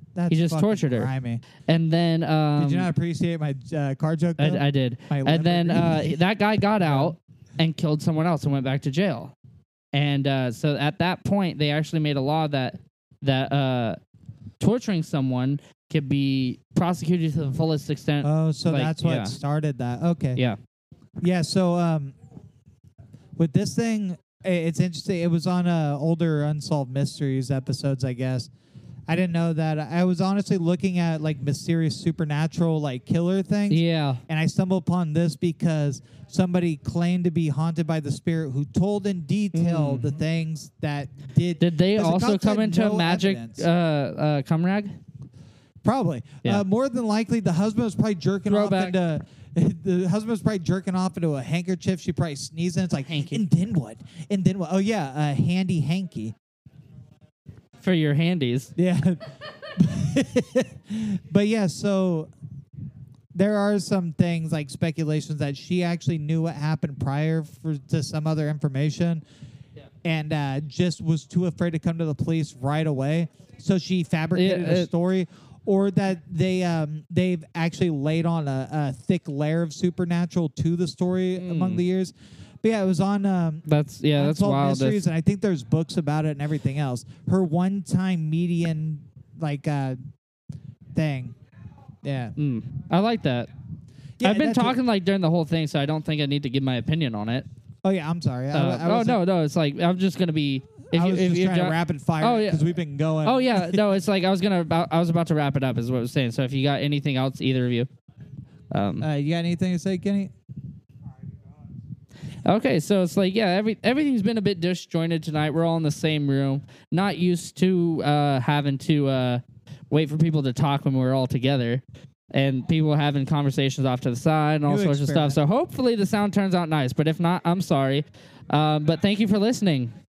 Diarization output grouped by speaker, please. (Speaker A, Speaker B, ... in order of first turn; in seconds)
Speaker A: 0.1-1.4, 2.5-6.2, 6.8-7.2, 18.2-20.4, 21.2-22.1, 23.4-28.5, 29.1-43.6, 45.8-56.3, 58.8-62.3, 63.3-69.2, 70.0-83.6, 84.2-90.1, 90.9-91.3, 92.0-92.3, 94.2-94.8, 97.8-99.2, 100.9-104.0, 109.0-110.3, 124.6-125.4
Speaker B: 0.3-1.1, 1.6-2.9, 4.4-9.3, 9.9-14.0, 14.6-19.4, 33.7-34.2, 39.5-40.1, 41.6-44.9, 48.5-49.0, 53.1-53.4, 57.8-58.7, 74.3-74.9, 81.3-81.8, 83.7-85.0, 92.4-93.5, 94.2-97.5, 98.5-102.6, 103.2-107.9, 108.7-109.1, 112.4-121.8, 122.3-129.9